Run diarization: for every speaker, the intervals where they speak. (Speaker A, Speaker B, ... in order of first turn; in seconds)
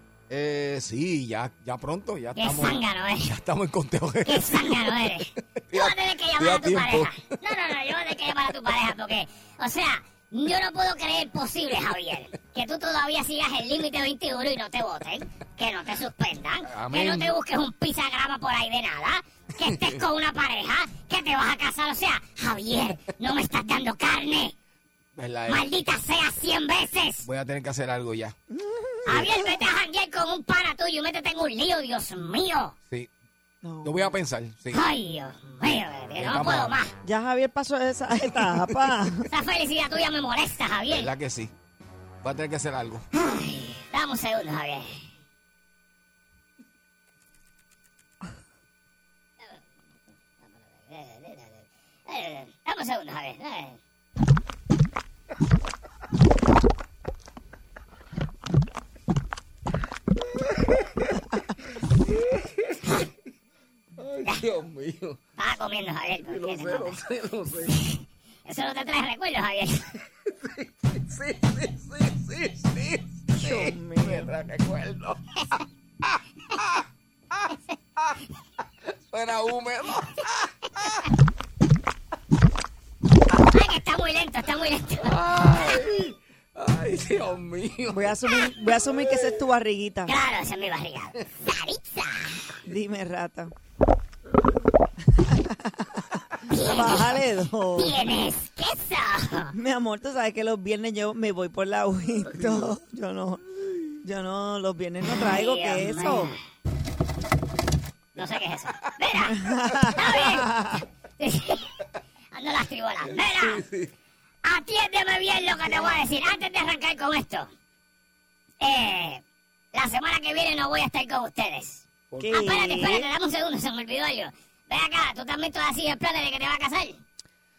Speaker A: 0.3-4.9, 5.7-7.1, 16.6-17.3, 19.6-20.0, 25.1-25.6, 27.2-28.4, 33.8-34.8, 36.2-36.8, 40.9-41.5, 42.2-43.0, 62.1-62.8, 64.0-65.2, 66.3-67.9, 70.2-75.3, 76.0-77.4, 78.9-81.0, 85.0-88.4, 113.1-113.9, 122.1-122.6
Speaker B: 2.4-3.3, 4.2-24.5, 25.5-27.3, 29.1-32.7, 34.7-37.0, 39.3-41.1, 43.1-44.9, 50.4-53.8, 65.4-67.0, 67.8-70.0, 83.3-85.2, 90.1-92.6, 96.5-97.2, 97.8-99.5, 105.0-106.4, 108.2-109.4, 109.9-110.5, 111.2-111.7, 112.3-113.6, 114.4-117.5, 118.6-119.2, 119.7-127.0
Speaker C: 28.5-29.5, 33.6-34.1, 37.0-39.3, 73.3-74.3, 87.9-90.1, 92.7-93.5, 95.1-96.0, 96.5-98.0, 99.5-103.4, 104.0-106.3, 109.3-110.8, 115.7-115.9, 122.2-123.1